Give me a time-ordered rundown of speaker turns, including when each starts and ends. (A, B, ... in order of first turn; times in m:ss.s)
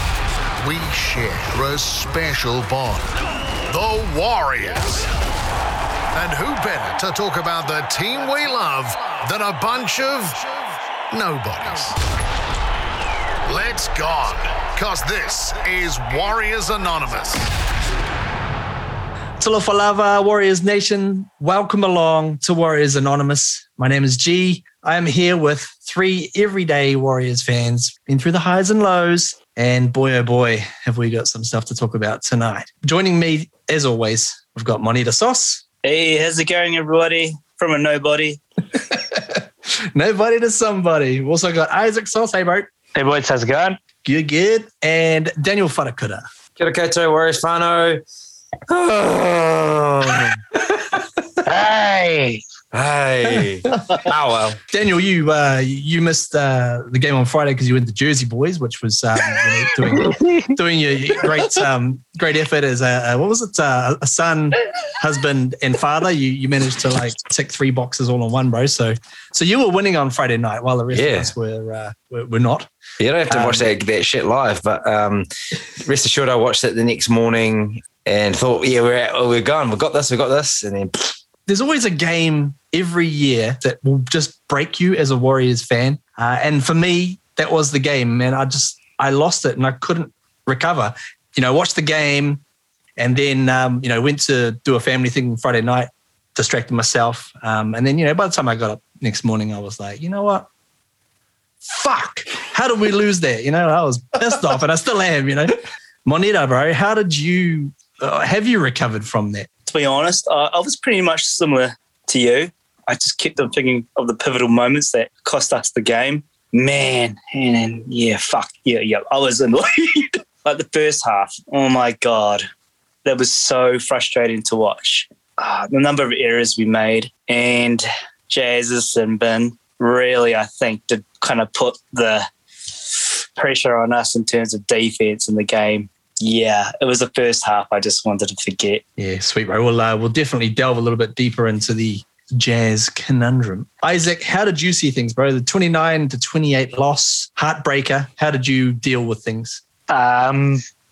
0:00.6-0:03.2 A
0:03.7-0:05.1 A
0:06.1-0:10.4 A
0:11.1-0:12.0 A
0:13.5-0:17.4 A
0:19.4-0:35.6 B
0:35.8-0:38.4 C
0:38.7-0:42.7 B
0:42.9-0:43.8 D
0:44.0-0:46.2 B
0:46.6-0:48.0 E
0:48.7-0:50.4 E
0:51.4-0:52.4 D
0:52.7-0:54.6 E
0:53.3-0:53.9 B
0:54.7-1:12.7 B
1:00.0-1:00.5 D
1:10.9-1:11.3 E
1:13.0-1:15.3 E
1:13.3-1:13.7 B
1:15.8-1:21.2 E
1:21.5-1:32.4 B
1:33.0-1:40.5 B
1:41.6-1:49.5 B
1:49.7-2:02.4 C
2:03.0-2:18.8 C
2:19.0-2:29.6 B
2:29.9-2:30.6 D